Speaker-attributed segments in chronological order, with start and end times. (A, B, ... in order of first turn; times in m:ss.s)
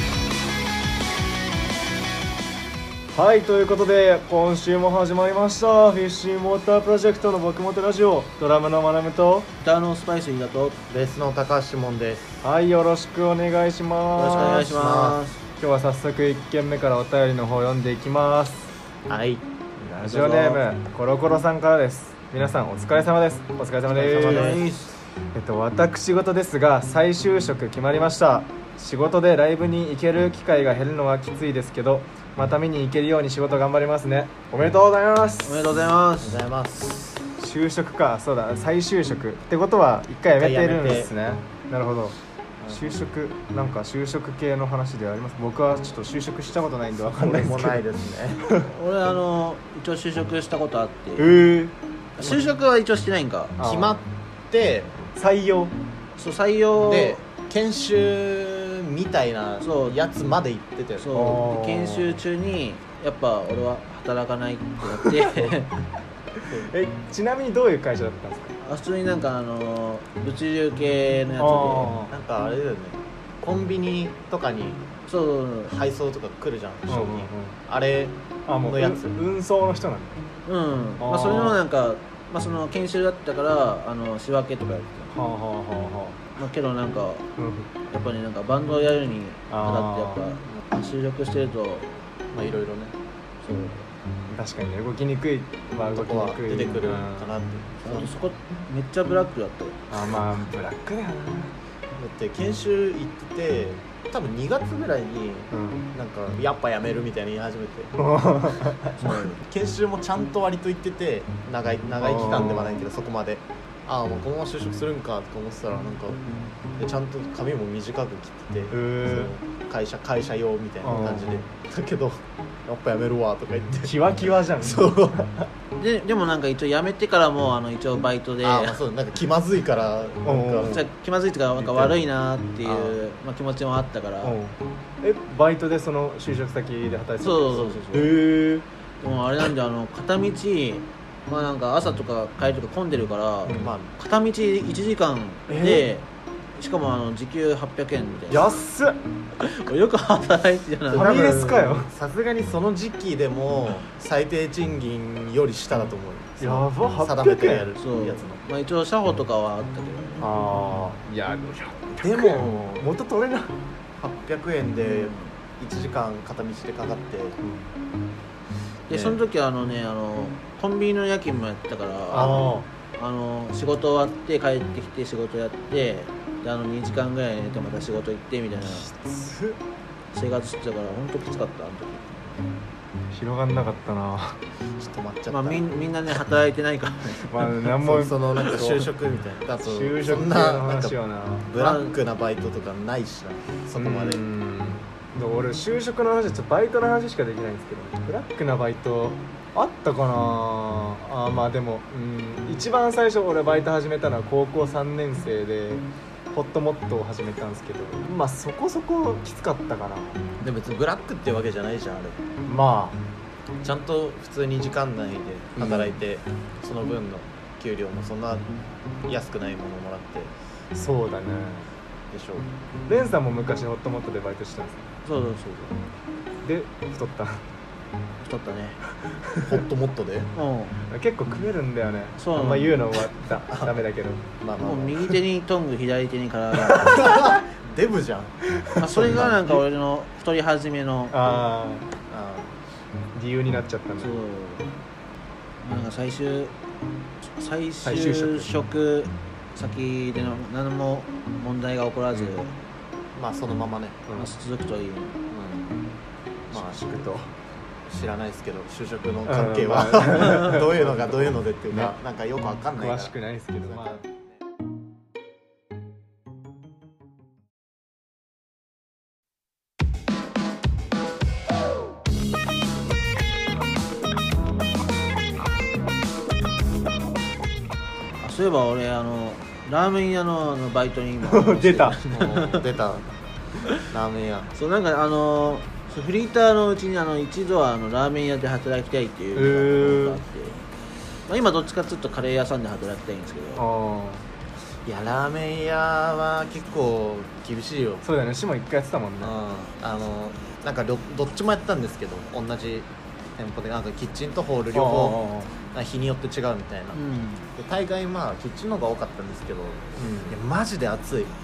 0:03.1-0:09.5 A
0:09.6-0:10.8 B
0:10.9-0:12.4 C
0:12.4-0:14.7 A
0:14.1-0:15.4 B
0:14.2-0:15.2 C
0:15.6-0:18.7 A
0:19.1-0:19.5 C
0:19.8-0:24.6 A
0:20.0-0:20.6 B
0:23.9-0:24.6 C
0:24.1-0:25.0 B
0:25.3-0:35.8 A
0:35.4-0:36.4 B
0:36.2-0:37.2 C
0:37.4-0:42.2 A
0:40.4-0:41.1 C
0:42.6-0:43.0 C
0:42.7-0:47.8 A
0:47.1-0:48.4 C
0:48.6-0:51.3 B
0:51.2-0:51.8 A
0:52.2-0:53.6 B
0:53.6-0:54.0 A
0:53.6-0:55.1 C
0:55.1-0:55.7 A
0:56.2-0:57.2 B
0:56.8-1:01.1 C
0:59.6-1:00.0 B
1:01.0-1:05.8 B
1:01.1-1:02.2 A
1:05.0-1:05.4 A
1:06.4-1:08.5 A
1:06.5-1:06.7 C
1:08.6-1:11.9 B
1:11.4-1:12.1 A
1:12.1-1:14.9 C
1:15.0-1:15.7 B
1:15.7-1:19.1 C
1:16.9-1:17.6 A
1:18.5-1:20.2 A
1:20.4-1:25.1 B
1:21.0-1:21.6 A
1:25.1-1:26.2 A
1:26.4-1:27.2 B
1:27.4-1:27.7 A
1:27.9-1:31.9 B
1:29.5-1:30.2 A
1:32.3-1:32.9 C
1:33.4-1:33.9 B
1:34.3-1:37.3 A
1:35.9-1:38.2 C
1:37.8-1:39.8 B
1:39.9-1:41.5 A
1:41.9-1:56.2 C
1:45.5-1:45.9 A
1:48.0-1:48.9 A
1:49.0-1:49.4 B
1:52.0-1:52.8 A
1:56.8-2:05.2 C
1:58.7-1:59.3 A
2:00.8-2:01.4 A
2:03.8-2:05.5 A
2:05.7-2:08.8 B
2:08.4-2:10.8 C
2:10.2-2:10.8 A
2:10.6-2:14.4 B
2:11.6-2:12.0 C
2:12.6-2:13.0 C
2:14.2-2:18.6 A
2:17.2-2:18.2 B
2:19.0-2:28.6 B
2:23.4-2:23.7 A
2:23.5-2:23.9 C
2:25.5-2:25.9 A
2:28.3-2:29.0 A
2:29.4-2:31.2 B
2:30.9-2:38.4 C
2:30.9-2:31.9 A
2:36.4-2:37.7 A
2:37.8-2:40.3 B
2:40.2-2:43.6 A
2:42.0-2:42.8 C
2:44.0-2:47.4 C
2:44.8-2:45.4 B
2:47.4-2:47.7 A
2:48.9-2:58.9 B
2:48.9-2:49.2 C
2:52.1-2:52.5 C
2:52.1-2:52.7 A
2:58.6-2:59.6 A
3:00.1-3:02.4 B
3:03.1-3:04.4 A
3:04.8-3:05.6 C
3:05.3-3:07.5 B
3:07.2-3:08.9 A
3:07.8-3:14.2 C
3:09.6-3:11.5 A
3:11.6-3:12.0 B
3:13.8-3:30.2 A
3:30.4-3:32.2 C
3:32.4-3:33.0 A
3:33.6-3:38.4 C
3:35.6-3:36.0 A
3:39.0-3:40.3 C
3:40.7-3:41.7 A
3:42.1-3:42.5 C
3:42.9-3:44.8 A
3:45.0-3:45.8 B
3:46.4-3:47.4 A
3:48.2-3:48.8 B
3:49.4-3:50.3 C
3:50.3-3:50.8 B
3:50.9-3:54.2 A
3:52.2-3:52.8 B
3:53.5-3:53.7 C
3:54.4-3:55.2 C
3:54.6-3:57.2 B
3:56.8-3:59.6 C
3:58.8-4:01.3 B
3:59.1-3:59.6 A
4:01.1-4:01.8 A
4:02.1-4:02.6 C
4:03.1-4:04.1 A
4:04.0-4:04.8 B
4:05.6-4:06.6 B
4:07.2-4:12.6 B
4:07.8-4:08.5 A
4:13.1-4:14.0 C
4:14.1-4:14.3 A
4:14.1-4:15.2 B
4:15.3-4:15.7 C
4:16.5-4:17.3 A
4:16.5-4:16.8 C
4:17.9-4:24.2 C
4:19.2-4:21.9 A
4:22.8-4:24.0 A
4:38.2-4:42.6 B
4:41.3-4:42.0 A
4:42.1-4:43.1 C
4:43.9-4:44.5 C
4:44.5-4:50.6 B
4:49.3-4:50.2 A
4:51.3-4:53.6 B
4:53.6-4:54.2 A
4:54.8-4:58.0 C
4:58.0-4:59.3 A
4:59.2-5:07.0 C
5:04.7-5:05.5 A
5:06.9-5:07.5 B
5:07.6-5:11.4 C
5:10.0-5:10.4 A